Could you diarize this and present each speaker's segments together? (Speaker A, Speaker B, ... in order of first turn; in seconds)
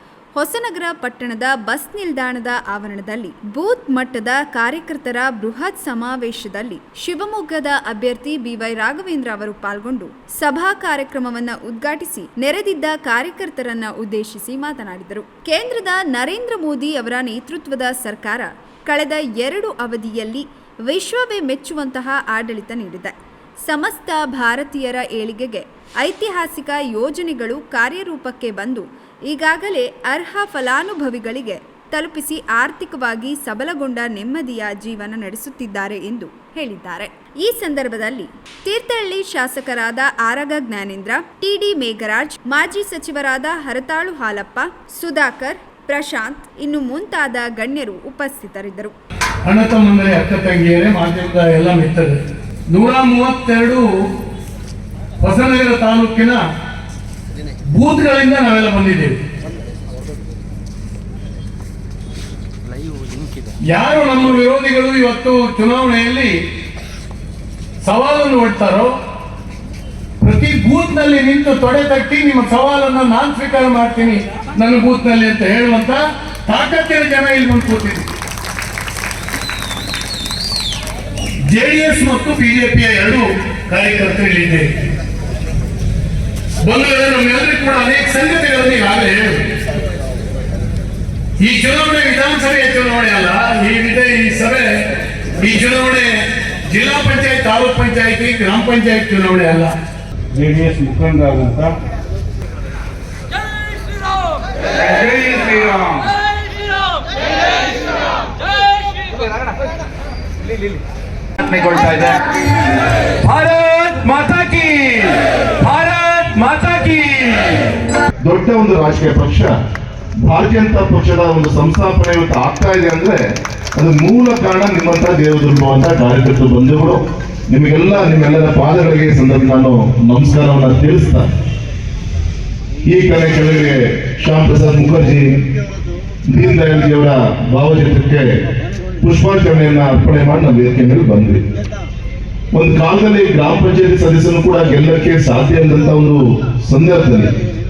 Speaker A: 0.3-23.1, 23.7-48.9
Speaker B: 49.4-54.1, 55.2-56.4, 57.7-59.2, 63.7-66.3, 67.8-68.9, 70.2-78.1, 81.5-84.7, 86.6-89.5, 91.4-99.8
Speaker C: 62.8-63.5, 100.3-101.7, 104.8-106.1, 111.4-112.4, 113.2-117.7
Speaker D: 118.2-119.5, 120.2-123.2, 123.8-131.2, 132.9-135.3, 136.3-138.3, 139.0-141.4, 142.5-147.3